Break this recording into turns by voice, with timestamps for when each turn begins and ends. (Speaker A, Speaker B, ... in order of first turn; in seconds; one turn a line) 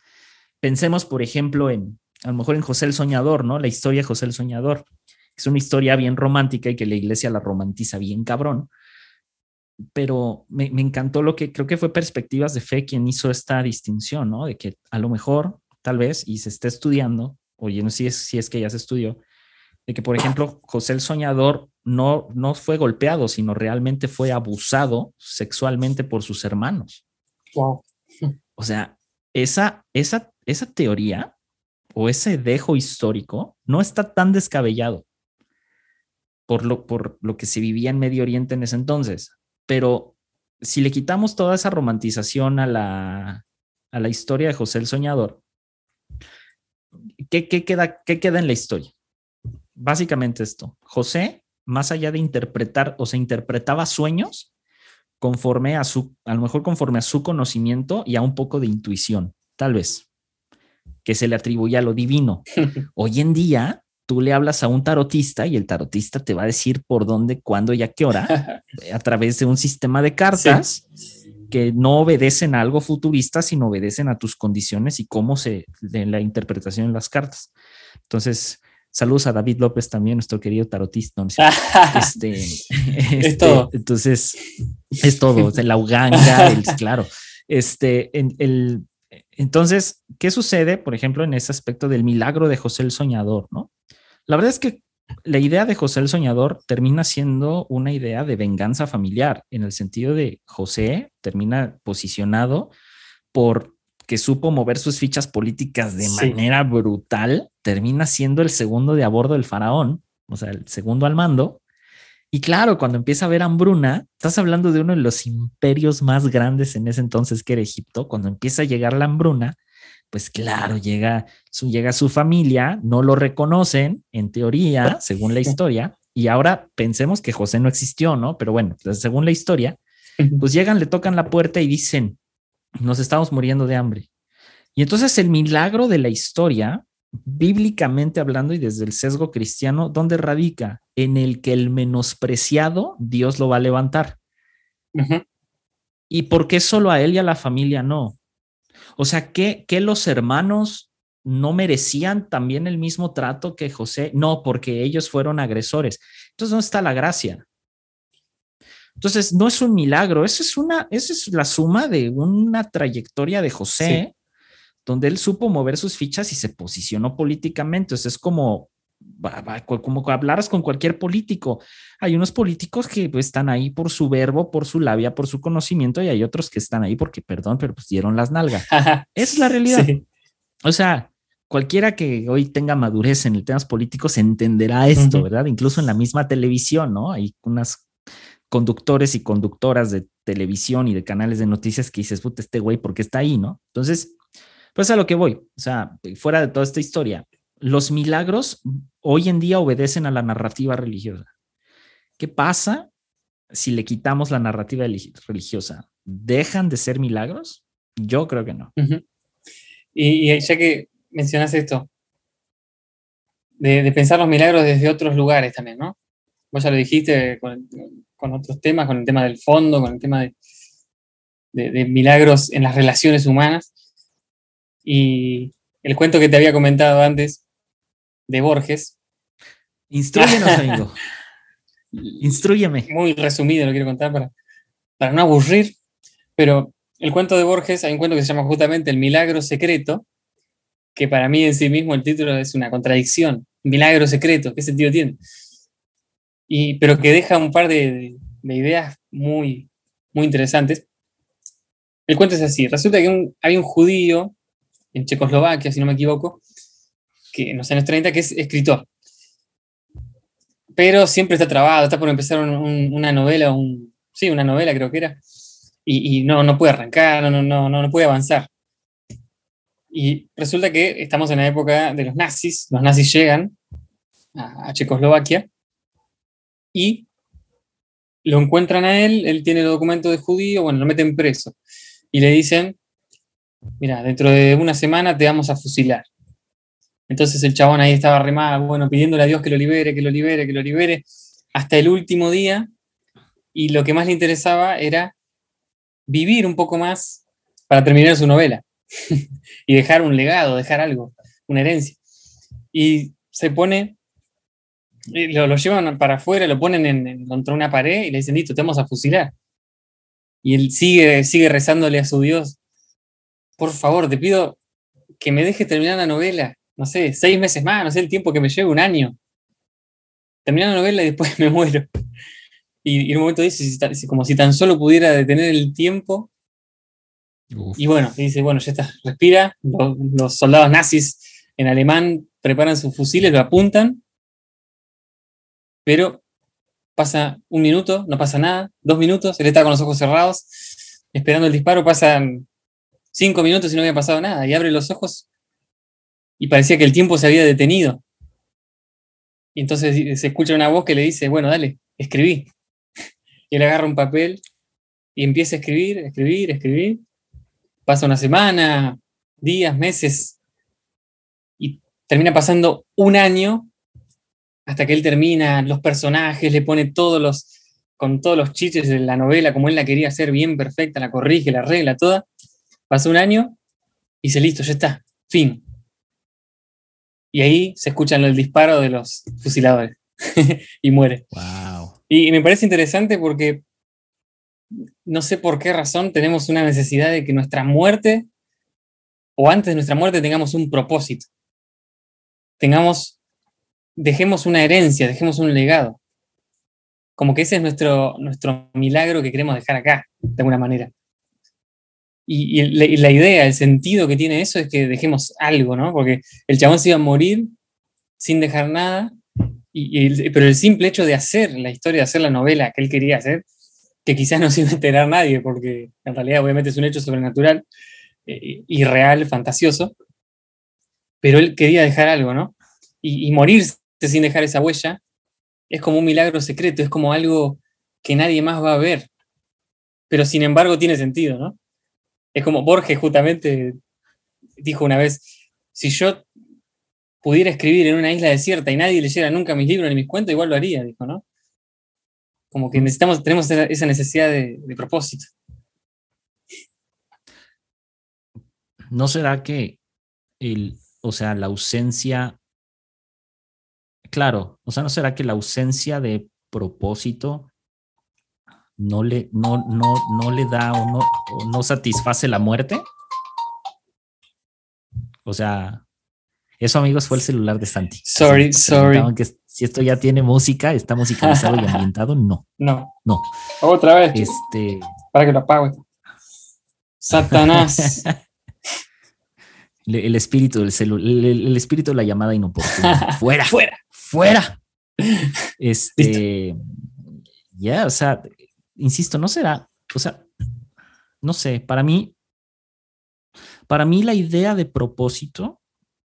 Speaker A: 0.6-8.7
Speaker A: 9.9-19.2
Speaker A: 19.9-27.0
Speaker B: 27.5-28.3
Speaker A: 28.6-31.3
Speaker A: 31.9-35.0
Speaker A: 36.5-45.4
Speaker A: 47.2-48.9
Speaker A: 49.8-54.5
Speaker A: 55.2-60.1
Speaker A: 61.0-70.8
Speaker B: 70.3-70.6
Speaker A: 71.5-77.5
Speaker A: 78.1-84.4
Speaker B: 81.4-82.1
Speaker B: 83.2-83.7
Speaker A: 85.0-93.7
Speaker B: 86.1-86.5
Speaker A: 94.3-102.7
Speaker A: 103.3-111.6
Speaker B: 106.0-106.4
Speaker A: 112.3-119.6
Speaker A: 120.1-129.8
Speaker A: 130.4-132.2
Speaker A: 132.8-134.1
Speaker A: 134.7-144.2
Speaker B: 144.9-145.2
Speaker A: 146.1-148.2
Speaker A: 149.0-157.4
Speaker A: 159.0-164.1
Speaker A: 164.8-179.9
Speaker B: 178.7-179.1
Speaker B: 179.6-180.0
Speaker A: 180.6-187.8
Speaker B: 184.9-185.2
Speaker A: 188.5-194.1
Speaker A: 194.7-201.3
Speaker A: 202.2-202.9
Speaker A: 203.5-208.7
Speaker B: 208.8-209.0
Speaker B: 209.9-211.9
Speaker B: 213.6-215.9
Speaker B: 216.5-220.3
Speaker B: 221.5-223.7
Speaker B: 224.8-227.4
Speaker B: 228.3-228.9
Speaker A: 229.9-231.0
Speaker B: 230.2-230.7
Speaker B: 231.9-232.3
Speaker A: 232.2-232.9
Speaker B: 232.9-234.3
Speaker B: 235.0-235.7
Speaker B: 236.4-240.0
Speaker B: 240.9-245.2
Speaker B: 246.5-250.8
Speaker B: 252.1-254.3
Speaker B: 254.9-256.4
Speaker B: 257.3-258.9
Speaker B: 260.8-265.2
Speaker B: 265.9-268.5
Speaker B: 269.9-273.6
Speaker B: 274.3-275.4
Speaker B: 276.7-277.1
Speaker B: 278.2-281.5
Speaker B: 282.1-282.8
Speaker B: 283.8-286.1
Speaker B: 287.1-292.7
Speaker B: 293.5-295.1
Speaker B: 296.1-302.0
Speaker B: 302.7-303.9
Speaker B: 305.1-309.3
Speaker B: 310.4-312.6
Speaker B: 313.6-314.6
Speaker B: 315.2-319.1
Speaker B: 320.4-321.9
Speaker B: 322.8-326.3
Speaker A: 327.5-327.8
Speaker B: 327.8-334.0
Speaker B: 335.9-336.2
Speaker B: 336.9-340.5
Speaker B: 341.1-342.4
Speaker B: 343.1-345.2
Speaker B: 346.4-348.0
Speaker B: 349.6-352.5
Speaker B: 353.5-354.4
Speaker B: 355.1-357.0
Speaker B: 357.9-360.4
Speaker B: 361.6-363.7
Speaker B: 364.7-372.2
Speaker B: 372.9-373.6
Speaker B: 374.2-375.6
Speaker B: 377.3-381.2
Speaker A: 381.3-382.0
Speaker B: 382.1-383.6
Speaker B: 385.0-388.2
Speaker B: 389.4-391.3
Speaker B: 392.6-393.1
Speaker B: 394.0-396.0
Speaker B: 397.2-400.9
Speaker B: 402.3-407.5
Speaker B: 408.2-409.1
Speaker B: 409.7-413.4
Speaker B: 414.0-417.6
Speaker B: 418.2-419.9
Speaker B: 421.2-425.0
Speaker B: 425.7-429.1
Speaker B: 430.1-431.6
Speaker B: 432.3-433.8
Speaker B: 434.6-436.2
Speaker B: 437.2-441.2
Speaker B: 442.5-445.3
Speaker A: 448.9-449.8
Speaker A: 450.4-452.4
Speaker A: 454.1-457.5
Speaker A: 458.8-462.8
Speaker A: 465.2-465.8
Speaker A: 466.6-472.5
Speaker B: 468.0-469.1
Speaker B: 471.2-471.8
Speaker B: 472.6-472.9
Speaker B: 473.6-474.3
Speaker A: 474.1-474.9
Speaker B: 475.1-475.8
Speaker B: 477.0-478.0
Speaker A: 477.3-478.1
Speaker A: 479.8-484.6
Speaker B: 482.8-483.8
Speaker A: 485.6-486.6
Speaker A: 487.5-490.2
Speaker A: 491.2-492.1
Speaker A: 493.7-495.6